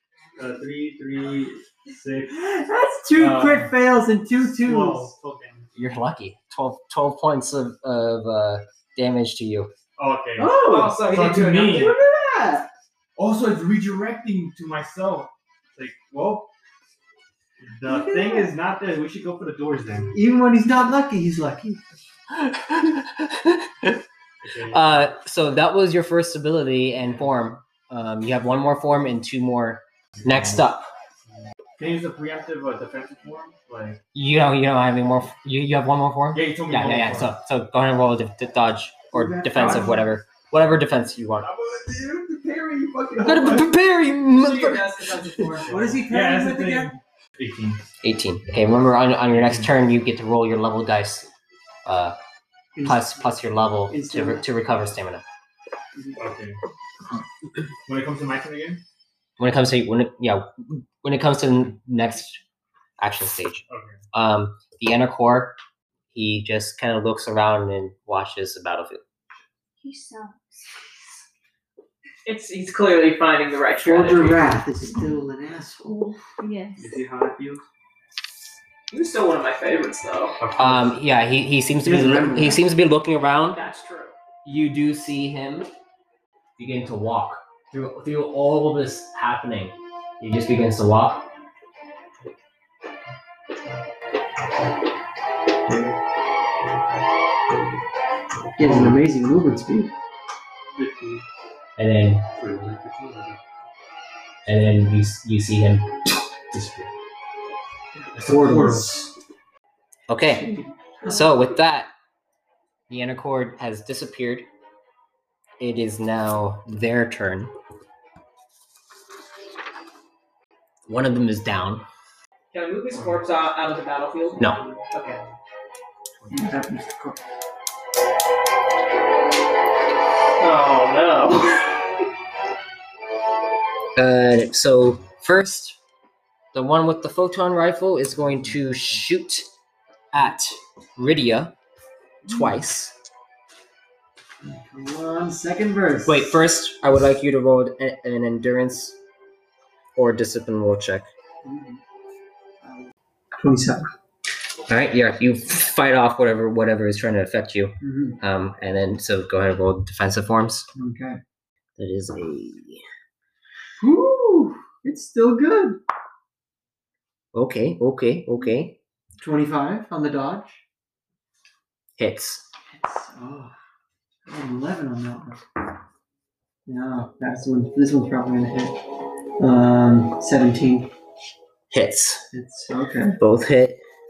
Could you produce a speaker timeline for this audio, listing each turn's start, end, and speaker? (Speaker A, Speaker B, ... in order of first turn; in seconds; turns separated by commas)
Speaker A: 0.4-2.4, Speaker B: 2.3-5.1, Speaker A: 3.1-3.8, Speaker A: 4.4-5.7, Speaker C: 5.8-9.7, Speaker A: 10.0-11.9, Speaker B: 10.4-11.0, Speaker D: 10.5-11.9, Speaker B: 11.7-12.7, Speaker A: 13.2-16.5, Speaker A: 17.6-20.1, Speaker B: 17.9-18.6, Speaker B: 20.1-21.8, Speaker C: 22.3-24.0, Speaker A: 24.4-25.1, Speaker C: 24.7-30.9, Speaker A: 30.2-30.6, Speaker A: 31.8-34.0, Speaker C: 34.1-41.5, Speaker A: 36.3-37.4, Speaker B: 39.1-40.1, Speaker A: 39.5-40.0, Speaker A: 41.4-43.7, Speaker C: 43.2-45.6, Speaker D: 44.3-45.8, Speaker A: 45.6-47.8, Speaker B: 45.7-46.9, Speaker C: 48.0-51.3, Speaker A: 49.3-49.7, Speaker C: 51.9-52.2, Speaker B: 52.8-54.5, Speaker C: 52.8-55.2, Speaker A: 56.2-56.6, Speaker A: 57.9-58.8, Speaker C: 59.4-62.4, Speaker C: 63.0-65.6, Speaker A: 63.7-64.0, Speaker C: 66.1-69.0, Speaker E: 69.8-70.7, Speaker D: 72.2-74.6, Speaker B: 73.8-76.0, Speaker E: 74.9-75.2, Speaker E: 75.8-77.0, Speaker A: 76.8-77.7, Speaker D: 78.9-80.4, Speaker A: 80.4-81.0, Speaker C: 80.6-83.6, Speaker B: 81.8-82.6, Speaker D: 83.5-84.1, Speaker C: 84.5-85.7, Speaker C: 86.6-91.3, Speaker A: 95.7-95.9, Speaker A: 98.6-99.0, Speaker B: 98.6-99.9, Speaker A: 100.8-101.2, Speaker C: 101.8-102.3, Speaker A: 102.4-103.4, Speaker C: 104.5-105.9, Speaker A: 106.5-106.9, Speaker B: 107.9-109.0, Speaker A: 108.1-109.1, Speaker C: 110.1-111.9, Speaker B: 110.3-111.2, Speaker C: 112.9-114.5, Speaker C: 115.6-117.5, Speaker C: 120.9-121.8, Speaker D: 122.5-125.2, Speaker B: 126.3-127.2, Speaker D: 130.4-131.7, Speaker C: 134.0-135.8, Speaker C: 136.5-139.5, Speaker C: 140.1-141.6, Speaker B: 142.2-142.6, Speaker C: 142.3-143.0, Speaker B: 144.4-146.4, Speaker C: 146.1-149.0, Speaker C: 150.0-151.1, Speaker B: 151.4-151.8, Speaker B: 152.6-153.9, Speaker C: 154.7-160.7, Speaker B: 157.8-158.2, Speaker B: 160.8-161.2, Speaker C: 161.8-162.8, Speaker B: 163.8-165.8, Speaker C: 167.3-168.8, Speaker B: 169.2-170.6, Speaker C: 172.0-172.5, Speaker B: 172.7-173.5, Speaker B: 174.2-175.4, Speaker B: 176.7-178.8, Speaker B: 179.4-180.9, Speaker C: 181.7-182.3, Speaker B: 182.3-183.2, Speaker C: 183.2-183.8